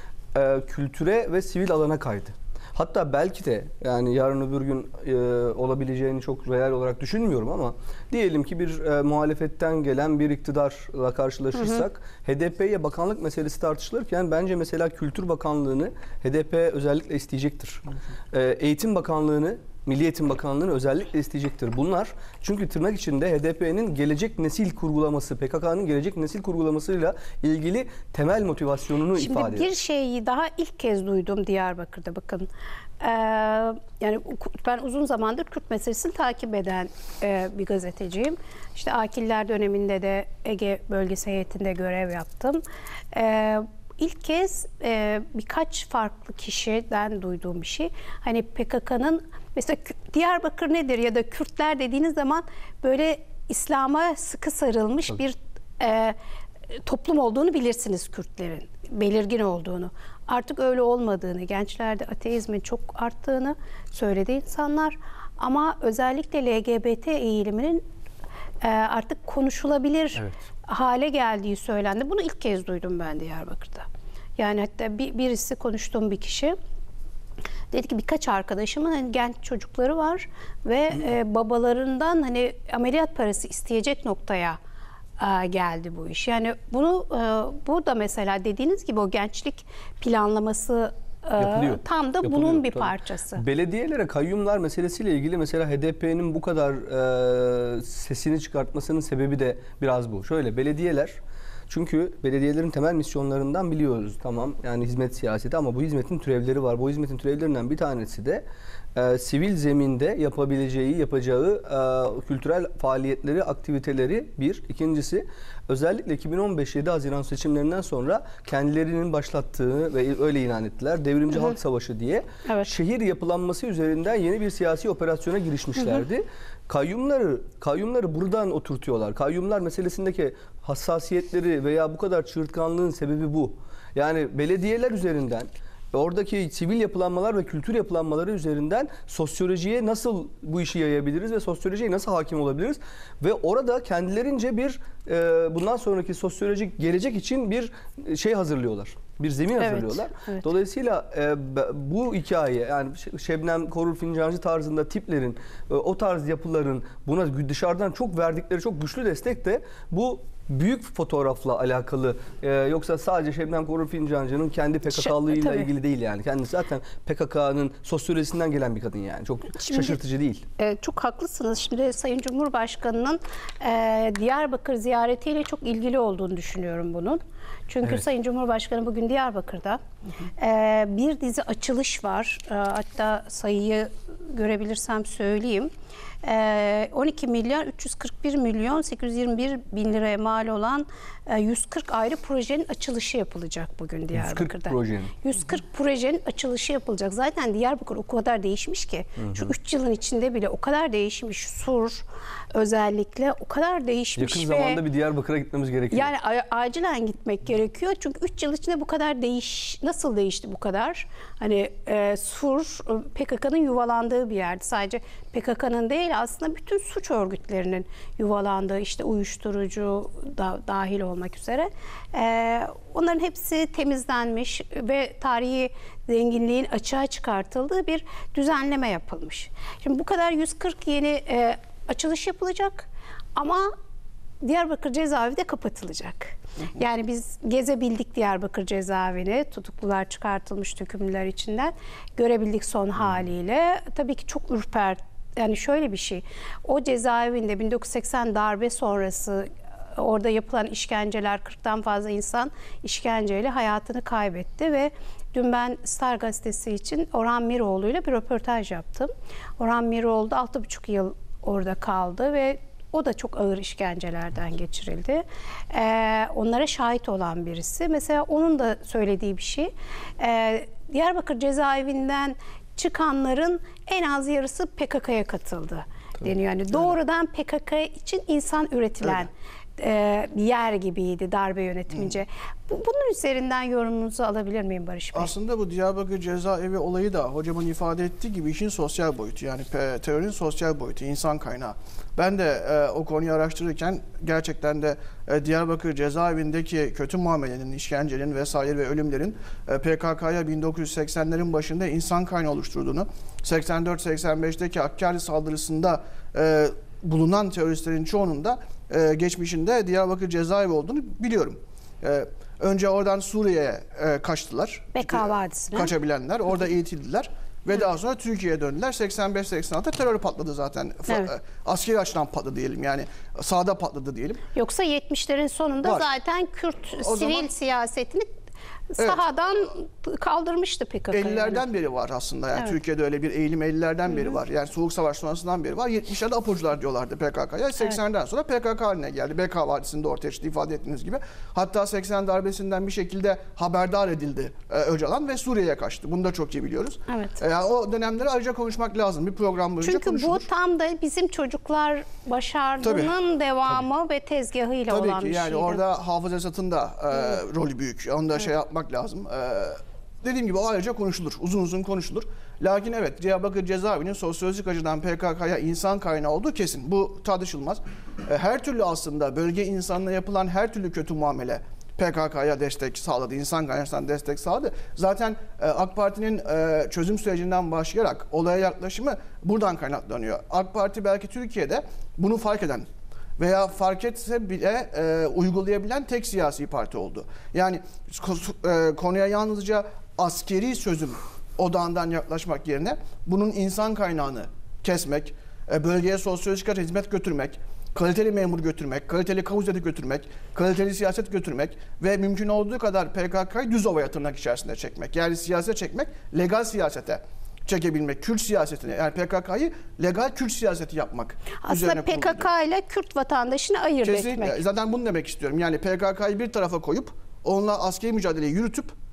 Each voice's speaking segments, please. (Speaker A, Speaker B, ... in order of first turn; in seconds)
Speaker A: 0.3-29.7, 91.4-101.2, 101.7-108.4, 108.9-170.4, 194.1-195.1, 199.2-199.5, 204.2-206.1
Speaker B: 29.2-32.5, 33.0-56.1, 56.7-67.8, 68.6-73.8, 74.4-76.6, 77.7-84.6, 85.2-93.4, 149.6-150.4, 164.9-165.7, 169.6-170.0, 170.6-179.8, 180.4-185.7, 186.2-204.8, 205.9-233.7, 234.4-285.3, 314.9-315.9, 324.5-328.3, 328.9-331.6, 347.1-347.4, 349.8-355.8, 411.6-414.6
Speaker C: 285.1-324.4, 325.8-326.1, 327.0-327.5, 331.1-350.5, 352.8-353.1, 354.9-382.9, 383.4-412.5, 414.0-418.9